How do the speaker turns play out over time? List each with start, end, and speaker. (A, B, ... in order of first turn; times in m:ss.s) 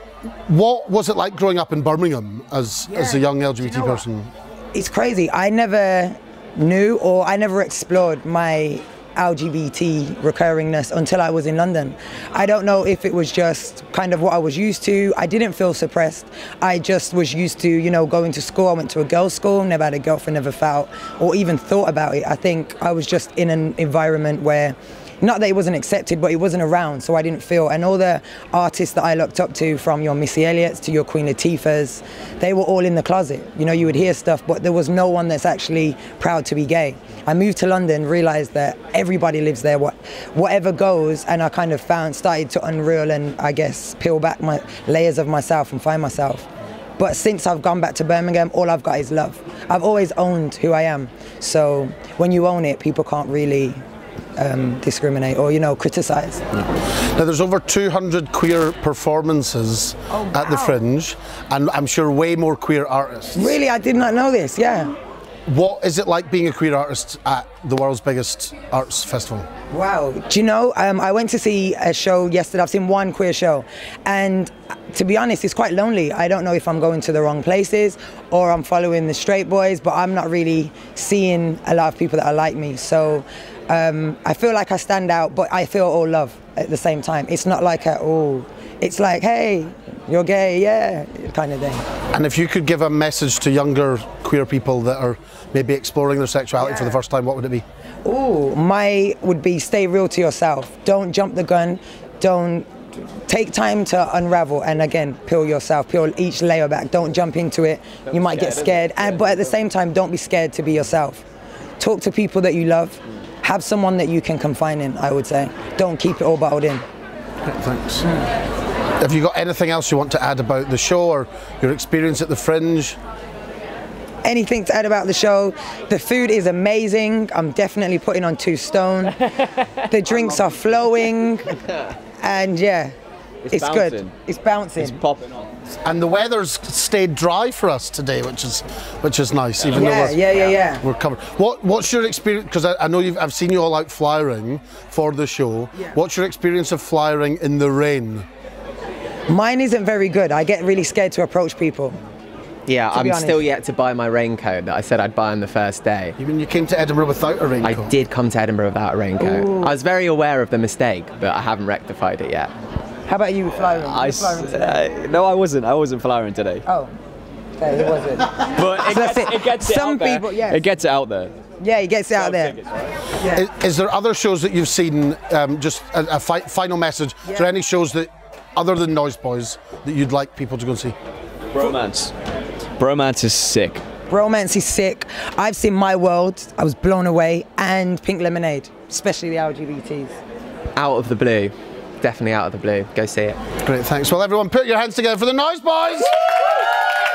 0:00.5-0:04.3 A
0:02.9-0:04.1 B
0:04.7-0:46.5 B
0:47.0-0:53.8 B
0:54.4-0:56.4 B
0:56.6-1:03.6 A
1:00.1-1:00.8 B
1:03.4-1:04.9 B
1:05.5-1:09.5 A
1:09.7-1:31.9 B
1:32.1-1:37.6 A
1:36.6-1:37.0 B
1:38.0-1:51.2 B
1:48.1-1:49.4 C
1:51.8-1:56.8 B
1:57.5-1:58.0 A
1:59.0-2:03.0 A
2:04.2-2:09.2 B
2:09.8-2:11.6 B
2:12.2-2:12.9 B
2:13.5-2:14.1 C
2:13.5-2:15.0 B
2:14.8-2:15.5 C
2:15.8-2:28.3 A
2:19.7-2:20.8 B
2:29.3-2:32.0 B
2:32.7-2:36.2 D
2:32.9-2:33.5 B
2:36.2-2:37.9 A
2:37.6-2:42.5 D
2:39.2-2:39.8 B
2:43.1-2:44.8 B
2:43.7-2:46.6 C
2:46.7-2:46.9 B
2:47.6-2:50.6 B
2:48.4-2:51.3 C
2:51.6-2:52.6 B
2:52.2-2:52.9 C
2:53.1-2:53.5 B
2:53.3-3:01.0 A
2:57.3-2:57.5 B
3:01.5-3:02.1 C
3:02.8-3:03.8 C
3:04.1-3:10.2 B
3:10.8-3:13.4 D
3:13.6-3:16.2 A